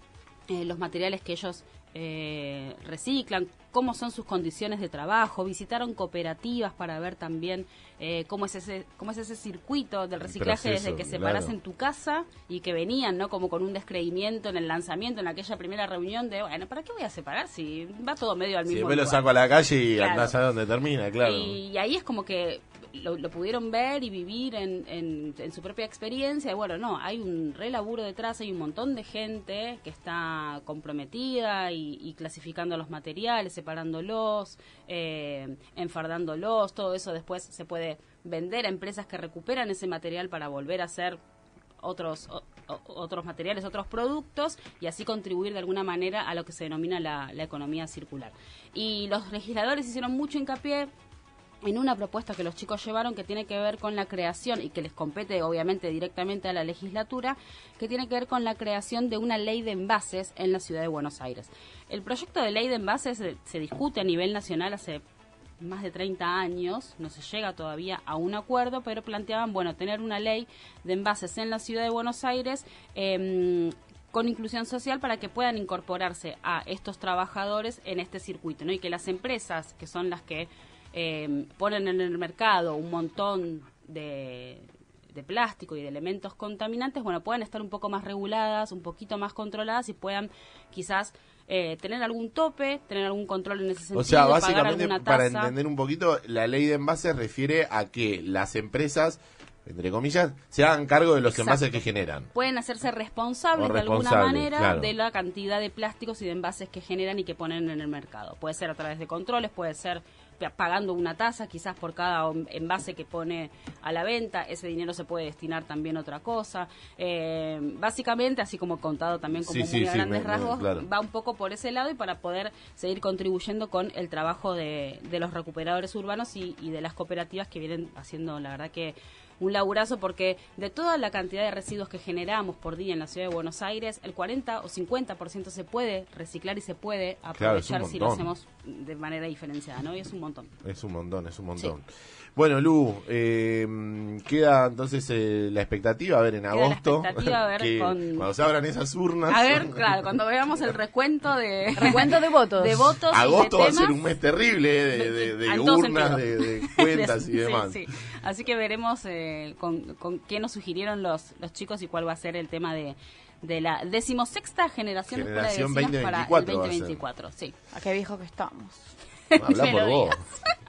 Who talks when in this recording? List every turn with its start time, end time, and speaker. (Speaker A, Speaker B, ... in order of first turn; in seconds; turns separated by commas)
Speaker A: 0.5-19.3, Speaker B: 10.2-11.6, Speaker B: 18.7-21.6, Speaker A: 19.9-20.4, Speaker A: 21.2-41.2, Speaker A: 41.8-50.9, Speaker A: 51.6-65.0, Speaker A: 65.6-95.5, Speaker B: 93.9-102.3, Speaker A: 101.3-140.5, Speaker B: 103.6-104.9, Speaker B: 119.3-120.8, Speaker B: 137.4-138.3, Speaker B: 140.6-141.8, Speaker B: 142.4-149.9, Speaker A: 146.5-148.3, Speaker A: 149.3-154.1, Speaker C: 151.8-152.9, Speaker B: 153.1-157.8, Speaker A: 154.9-167.6, Speaker B: 165.1-167.0, Speaker C: 167.7-168.8, Speaker A: 169.3-170.6, Speaker B: 169.4-170.2